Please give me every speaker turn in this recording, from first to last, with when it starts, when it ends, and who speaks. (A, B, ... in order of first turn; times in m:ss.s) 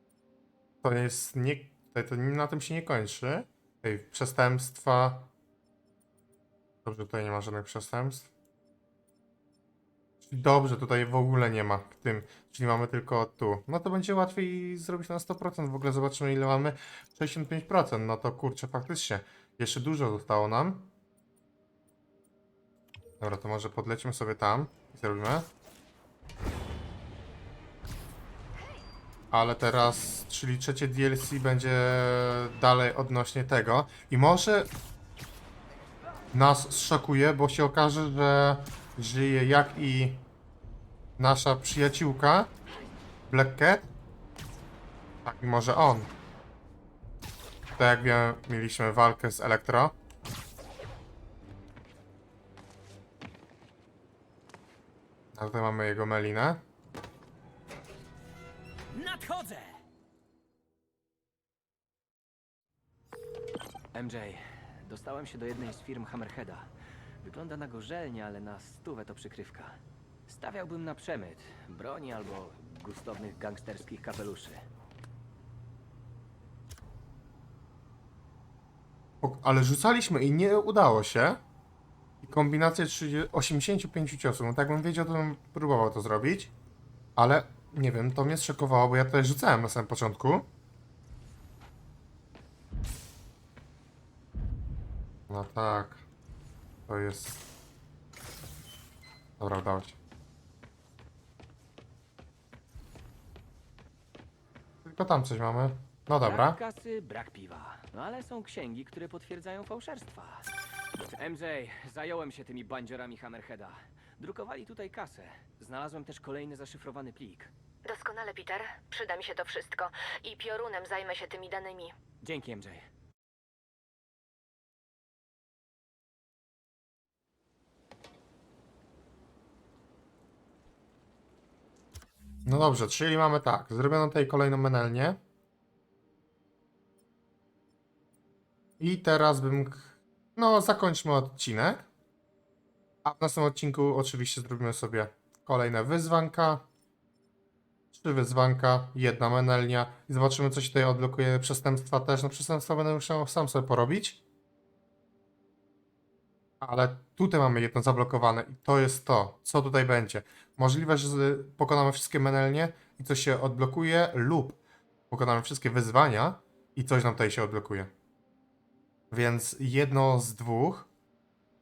0:00.8-0:05.3 A
0:06.8-0:08.3 A
0:10.2-0:20.9 A
0:23.2-0:25.5 A
0:29.3-0:34.7 A
0:36.3-0:40.2 A
0:41.2-0:42.5 A
0:43.3-0:43.9 A
0:45.2-0:46.1 A
0:47.8-0:49.9 A
0:55.3-0:56.6 A
0:58.9-0:59.8 B
1:03.9-1:06.7 B
1:07.2-1:09.8 B
1:10.3-1:14.6 B
1:19.2-1:21.4 A
1:22.2-1:26.5 A
1:27.2-1:30.5 A
1:35.3-1:36.0 A
1:36.9-1:37.4 A
1:39.4-1:40.0 A
1:44.8-1:46.6 A
1:46.2-1:57.5 B
1:57.8-2:02.0 C
2:02.2-2:02.9 B
2:12.5-2:15.2 A
2:18.8-2:21.9 A
2:23.0-2:26.7 A
2:27.9-2:34.2 A
2:36.6-2:47.9 A
2:49.1-2:50.9 A